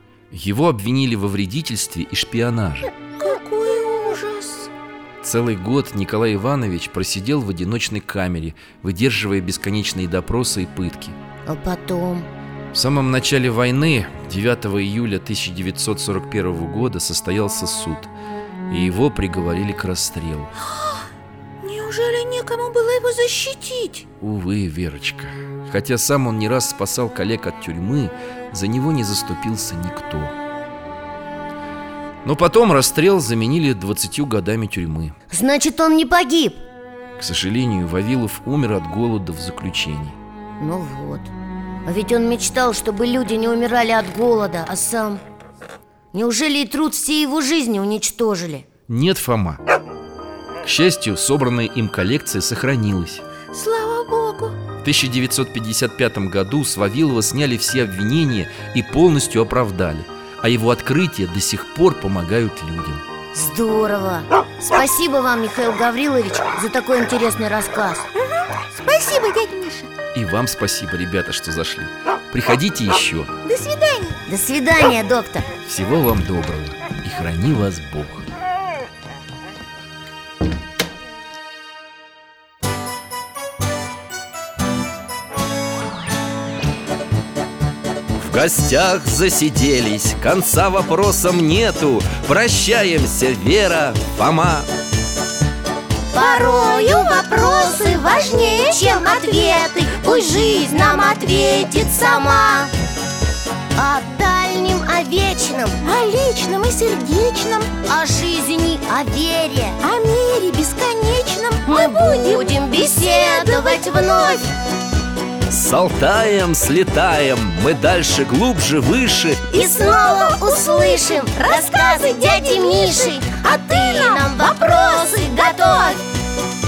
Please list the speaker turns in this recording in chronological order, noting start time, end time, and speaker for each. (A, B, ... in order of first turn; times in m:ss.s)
0:00.3-0:02.9 A
0:03.2-0:04.7 B
0:05.2-0:11.2 A
0:11.5-0:12.3 C
0:12.7-0:18.1 A
0:18.7-0:20.5 A
0:21.6-0:24.0 B
0:24.2-0:30.4 A
0:32.2-0:35.1 A
0:35.3-0:36.6 C
0:37.2-0:40.2 A
0:40.6-0:41.3 C
0:41.9-0:45.2 C
0:46.1-0:48.7 C
0:48.9-0:49.6 A
0:50.6-0:53.2 A
0:53.5-0:54.6 B
0:54.8-1:03.0 A
1:03.3-1:08.1 C
1:08.2-1:09.9 B
1:10.1-1:13.3 A
1:13.4-1:14.2 B
1:14.3-1:15.5 C
1:15.6-1:18.3 A
1:28.2-1:34.7 A
1:36.1-1:42.7 C
1:36.2-1:40.7 B
1:43.8-1:45.8 C
1:45.8-1:47.7 B
1:47.9-1:49.8 C
1:49.8-1:54.4 B
1:51.7-1:54.5 C
1:55.5-1:59.5 A
1:59.5-2:06.0 B
1:59.6-2:06.0 C